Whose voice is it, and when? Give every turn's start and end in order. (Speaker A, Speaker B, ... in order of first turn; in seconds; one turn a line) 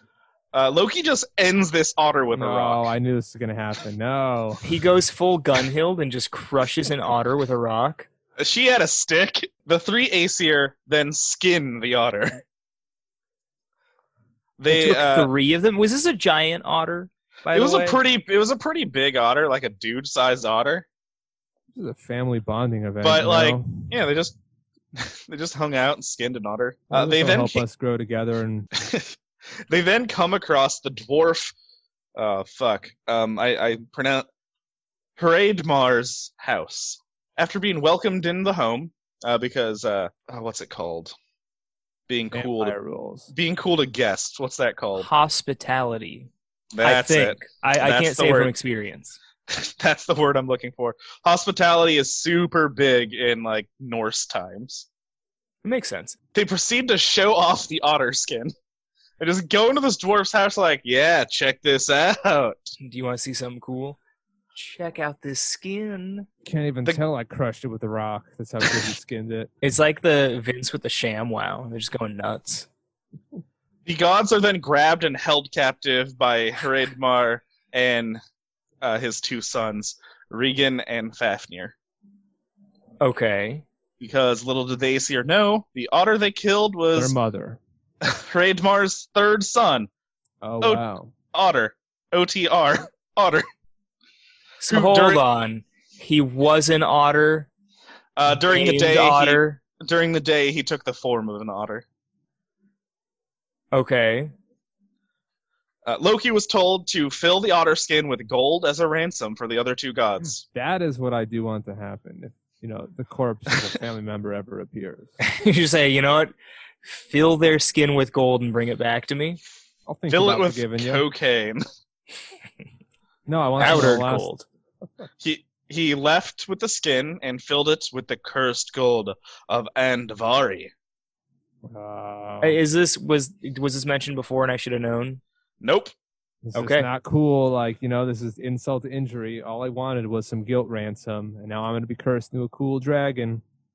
Speaker A: 0.5-2.9
Speaker B: 2.3-4.6
Speaker C: 4.6-8.1
Speaker A: 8.4-12.4
Speaker A: 14.6-15.3
Speaker C: 14.7-18.0
Speaker A: 17.5-20.9
Speaker B: 21.7-23.9
Speaker A: 23.0-24.4
Speaker A: 24.9-27.6
Speaker B: 26.9-28.7
Speaker A: 28.7-29.1
Speaker A: 29.7-31.5
Speaker A: 32.2-34.3
Speaker A: 35.2-41.1
Speaker A: 42.1-42.8
Speaker B: 42.3-43.3
Speaker A: 43.3-45.1
Speaker C: 45.0-46.3
Speaker A: 46.7-48.5
Speaker C: 46.8-49.2
Speaker A: 49.5-54.9
Speaker C: 55.6-56.2
Speaker A: 56.3-58.5
Speaker A: 59.2-62.7
Speaker C: 62.8-64.0
Speaker C: 64.5-66.3
Speaker B: 66.5-69.5
Speaker C: 69.6-72.7
Speaker A: 73.9-78.2
Speaker A: 78.8-81.8
Speaker C: 83.0-83.7
Speaker A: 84.0-87.2
Speaker B: 87.0-87.6
Speaker A: 88.0-89.9
Speaker B: 90.4-91.1
Speaker A: 91.3-93.5
Speaker C: 94.6-97.5
Speaker A: 94.7-95.2
Speaker A: 98.2-101.8
Speaker C: 98.5-99.6
Speaker C: 103.7-104.3
Speaker A: 105.8-110.4
Speaker B: 110.2-115.1
Speaker C: 115.2-116.3
Speaker C: 116.8-119.4
Speaker B: 119.9-121.0
Speaker A: 120.1-121.6
Speaker B: 123.3-124.3
Speaker C: 123.6-124.5
Speaker A: 123.7-123.9
Speaker A: 125.2-130.7
Speaker B: 131.6-132.6
Speaker C: 132.4-135.2
Speaker A: 135.6-135.9
Speaker B: 136.4-143.4
Speaker C: 136.5-136.9